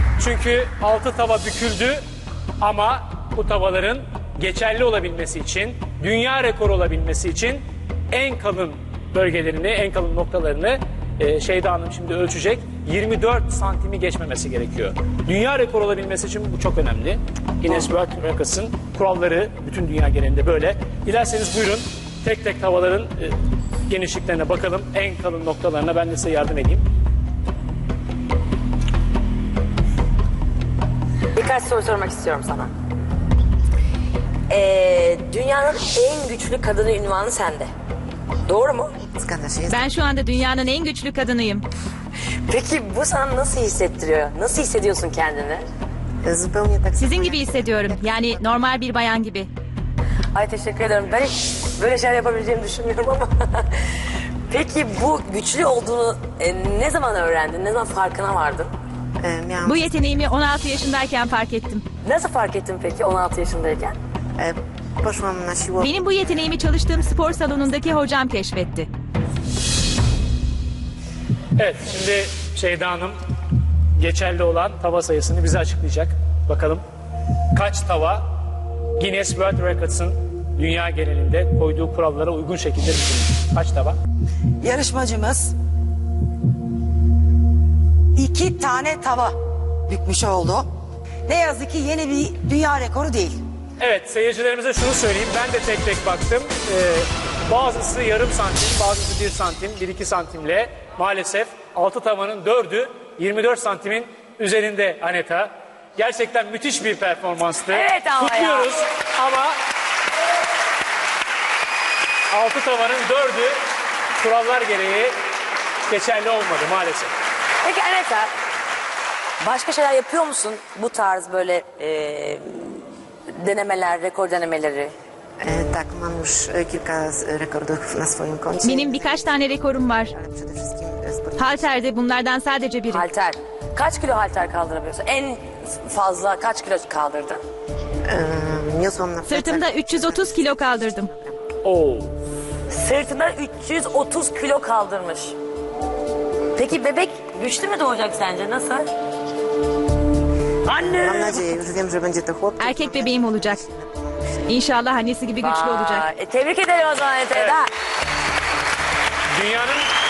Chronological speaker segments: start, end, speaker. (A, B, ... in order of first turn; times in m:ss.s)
0:00.2-0:02.0 A
0:02.6-0:23.4 A
0:23.9-0:26.8 A
0:31.4-0:32.7 B
0:34.5-0:37.7 B
0:38.4-0:38.9 B
0:39.1-0:39.9 C
0:39.7-0:41.6 D
0:42.5-0:45.6 B
0:46.2-0:48.7 C
0:47.0-0:49.5 D
0:50.3-0:53.7 B
0:54.5-0:58.7 B
0:59.2-1:00.2 C
0:59.6-1:01.8 D
1:02.0-1:04.0 B
1:04.4-1:08.0 C
1:05.8-1:08.9 D
1:11.6-1:13.2 A
1:14.0-1:16.8 A
1:17.5-1:18.3 A
1:19.0-1:24.0 A
1:24.6-1:25.5 E
1:28.2-1:29.4 E
1:29.9-1:30.7 E
1:31.3-1:33.4 E
1:33.8-1:49.6 A
1:47.7-1:48.8 B
1:52.3-1:53.6 A
1:54.2-1:55.1 A
1:55.9-1:57.1 A
1:57.6-1:58.3 B
1:59.4-2:02.8 B
2:03.4-2:04.9 B
2:05.4-2:09.5 C
2:08.6-2:10.1 D
2:10.1-2:11.7 C
2:11.4-2:13.1 D
2:12.9-2:17.4 B
2:18.1-2:21.5 C
2:19.3-2:21.1 D
2:21.6-2:22.1 A
2:22.7-2:25.4 B
2:26.6-2:28.9 B
2:30.6-2:31.5 B
2:30.8-2:34.6 C
2:32.6-2:33.6 D
2:34.5-2:36.0 D
2:35.4-2:37.7 B
2:37.3-2:37.6 A
2:39.3-2:39.8 A